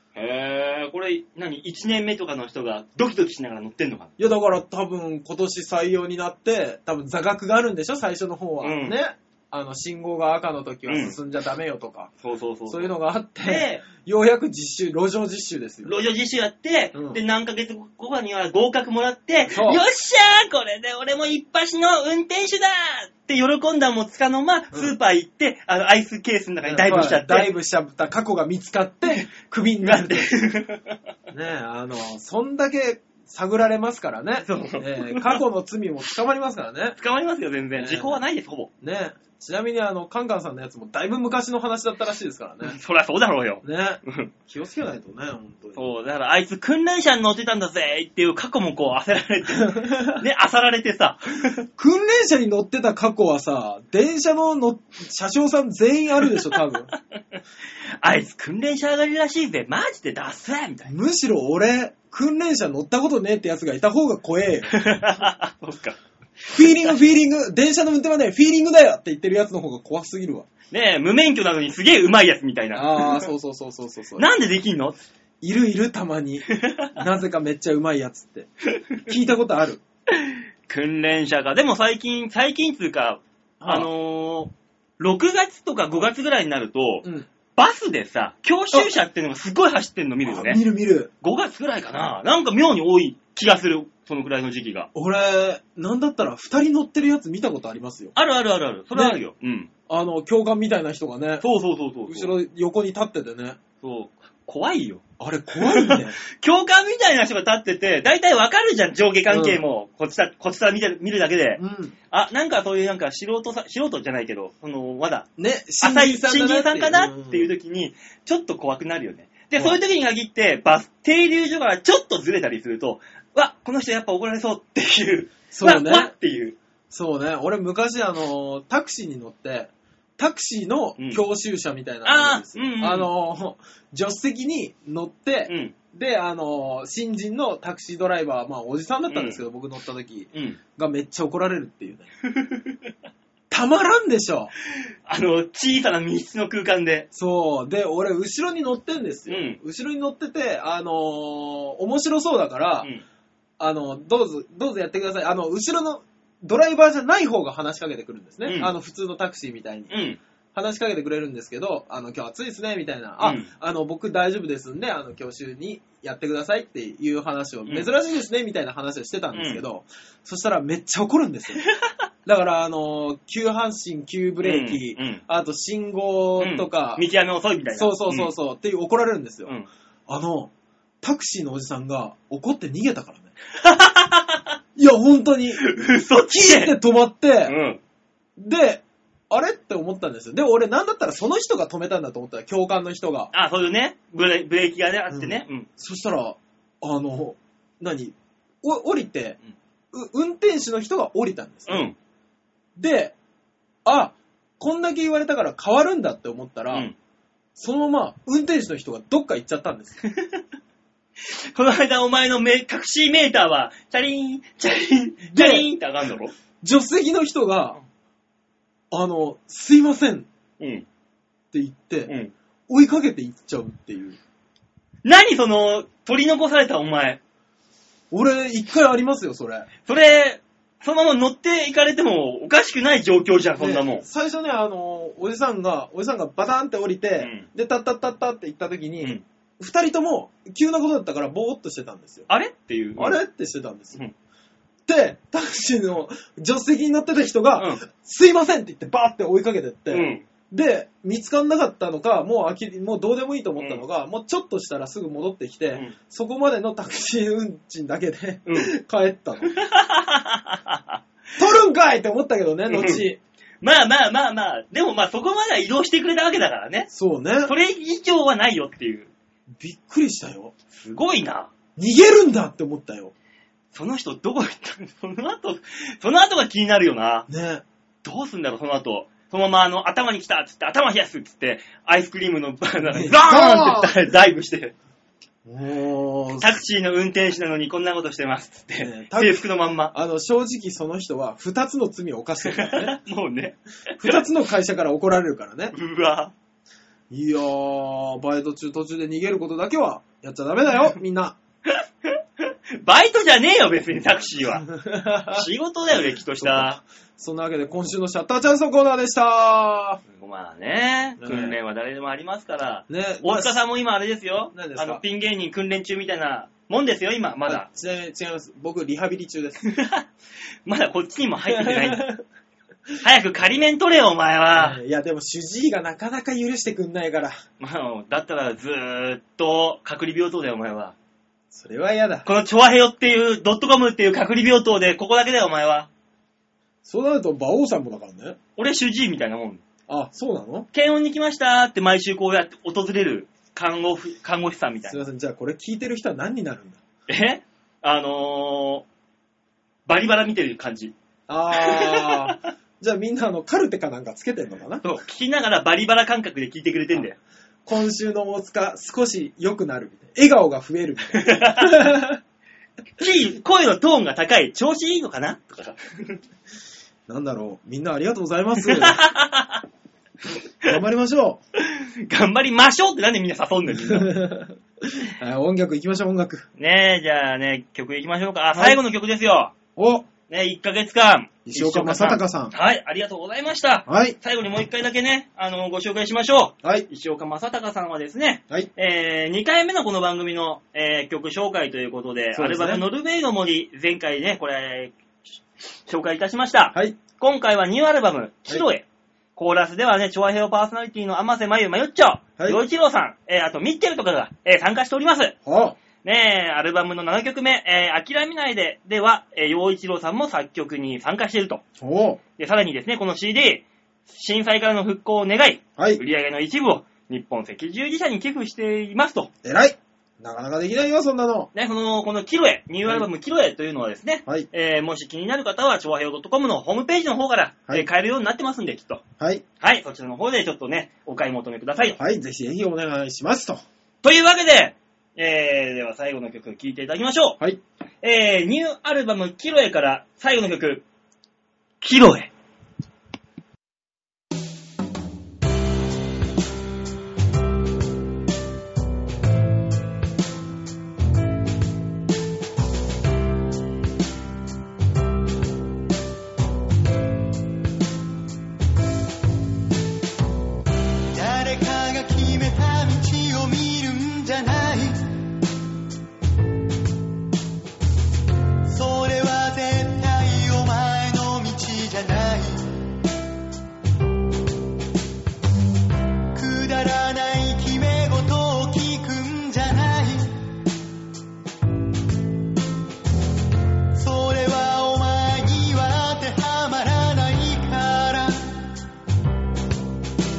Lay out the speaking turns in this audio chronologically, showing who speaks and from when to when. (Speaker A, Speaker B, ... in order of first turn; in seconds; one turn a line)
Speaker A: 0.1-4.1
Speaker B: 4.2-12.1
Speaker A: 8.6-9.0
Speaker A: 10.9-11.2
Speaker A: 12.2-13.8
Speaker B: 12.7-15.9
Speaker A: 15.8-27.5
Speaker B: 16.9-17.2
Speaker B: 19.5-19.8
Speaker B: 26.6-30.3
Speaker A: 29.8-31.0
Speaker B: 31.3-37.0
Speaker A: 34.5-35.4
Speaker A: 37.0-38.7
Speaker B: 37.8-38.2
Speaker B: 38.8-42.8
Speaker A: 42.6-44.3
Speaker B: 43.6-45.9
Speaker A: 45.8-51.6
Speaker B: 49.5-50.1
Speaker B: 51.8-56.9
Speaker A: 58.0-60.9
Speaker B: 60.9-64.7
Speaker A: 64.7-66.0
Speaker B: 66.5-70.5
Speaker A: 66.5-66.9
Speaker A: 70.7-73.3
Speaker B: 72.7-74.2
Speaker A: 74.2-75.0
Speaker B: 75.4-78.5
Speaker A: 76.6-76.9
Speaker B: 79.0-79.8
Speaker A: 80.1-90.6
Speaker B: 83.6-83.9
Speaker B: 90.2-91.1
Speaker A: 91.2-94.9
Speaker B: 94.9-98.1
Speaker A: 98.1-99.7
Speaker B: 98.9-99.2
Speaker B: 99.9-101.4
Speaker A: 101.4-102.3
Speaker B: 102.1-103.6
Speaker A: 103.8-105.0
Speaker B: 105.2-106.2
Speaker A: 105.5-115.3
Speaker B: 109.3-109.6
Speaker B: 111.6-111.9
Speaker B: 115.4-117.5
Speaker A: 115.8-126.6
Speaker B: 125.5-126.1
Speaker B: 126.9-142.1
Speaker A: 132.0-133.1
Speaker A: 135.5-135.7
Speaker A: 139.1-139.4
Speaker A: 140.3-140.6
Speaker A: 142.2-142.8
Speaker B: 143.5-144.5
Speaker A: 145.1-147.1
Speaker B: 147.1-152.9
Speaker A: 149.3-149.6
Speaker B: 153.6-159.9
Speaker A: 158.4-158.7
Speaker A: 159.9-160.2
Speaker B: 160.5-171.7
Speaker A: 163.2-163.5
Speaker A: 169.3-169.6
Speaker B: 172.2-177.0
Speaker A: 174.4-175.2
Speaker A: 176.4-178.3
Speaker B: 177.7-179.5
Speaker B: 180.1-183.3
Speaker A: 183.6-184.5
Speaker B: 184.8-185.7
Speaker A: 185.6-186.8
Speaker B: 186.3-187.6
Speaker A: 187.4-187.8
Speaker B: 188.4-193.3
Speaker A: 193.3-195.7
Speaker B: 195.1-199.4
Speaker B: 199.9-201.9
Speaker A: 201.7-201.9
Speaker B: 202.8-203.2
Speaker B: 203.8-206.9
Speaker B: 207.6-210.0
Speaker A: 210.1-210.4
Speaker A: 211.2-216.3
Speaker B: 215.3-215.7
Speaker B: 216.6-217.8
Speaker B: 218.9-220.3
Speaker A: 220.6-220.8
Speaker B: 221.5-222.1
Speaker A: 222.1-222.3
Speaker B: 222.7-224.2
Speaker A: 225.0-227.2
Speaker B: 228.1-229.7
Speaker A: 229.8-234.0
Speaker B: 233.6-242.3
Speaker A: 237.2-237.4
Speaker A: 242.3-243.2
Speaker B: 243.0-244.0
Speaker B: 244.9-259.5
Speaker A: 247.6-247.8
Speaker A: 249.9-250.2
Speaker A: 258.4-258.7
Speaker A: 259.4-261.0
Speaker B: 261.4-263.2
Speaker A: 262.7-263.1
Speaker A: 263.6-266.9
Speaker B: 266.9-267.5
Speaker A: 267.4-269.1
Speaker B: 269.6-270.5
Speaker A: 270.7-271.5
Speaker B: 271.8-273.1
Speaker A: 273.7-277.3
Speaker B: 277.3-277.6
Speaker A: 278.0-284.7
Speaker B: 282.9-284.0
Speaker B: 285.4-286.6
Speaker A: 286.4-289.9
Speaker B: 288.8-289.4
Speaker B: 289.9-292.9
Speaker A: 292.5-294.2
Speaker B: 294.0-295.7
Speaker A: 295.7-296.3
Speaker B: 297.1-301.4
Speaker A: 301.7-304.7
Speaker B: 304.6-305.4
Speaker A: 305.2-306.8
Speaker B: 306.4-310.0
Speaker A: 310.1-317.7
Speaker B: 311.2-311.6
Speaker B: 312.9-313.6
Speaker B: 314.5-315.0
Speaker B: 317.4-319.6
Speaker A: 319.6-320.1
Speaker A: 320.6-322.1
Speaker B: 321.5-322.2
Speaker A: 323.0-324.8
Speaker B: 324.6-327.4
Speaker A: 327.6-330.9
Speaker B: 331.5-332.3
Speaker A: 332.2-335.9
Speaker B: 336.8-338.4
Speaker A: 338.6-339.6
Speaker B: 339.9-340.7
Speaker A: 340.7-345.0
Speaker B: 344.8-346.8
Speaker A: 347.1-348.8
Speaker A: 349.9-350.9
Speaker B: 351.3-354.8
Speaker A: 351.5-352.5
Speaker A: 354.8-357.2
Speaker B: 357.6-362.2
Speaker A: 361.1-361.9
Speaker A: 363.0-366.2
Speaker B: 367.1-369.0
Speaker A: 368.6-369.6
Speaker B: 370.6-371.4
Speaker A: 371.6-374.2
Speaker B: 373.7-376.5
Speaker A: 376.6-379.5
Speaker B: 379.8-380.1
Speaker A: 380.3-394.9
Speaker B: 381.4-382.5
Speaker B: 383.9-384.1
Speaker B: 392.3-392.8
Speaker A: 395.9-405.4
Speaker B: 396.7-397.0
Speaker B: 405.4-405.8
Speaker A: 406.0-411.6
Speaker B: 411.8-412.2
Speaker A: 412.4-419.3
Speaker B: 419.4-421.5
Speaker A: 421.5-429.0
Speaker A: 429.6-432.0
Speaker B: 432.0-433.6
Speaker A: 434.0-437.4
Speaker A: 438.0-440.8
Speaker A: 441.8-442.3
Speaker C: 461.1-465.1
Speaker C: 468.6-472.7
Speaker C: 476.3-480.4
Speaker C: 483.9-488.7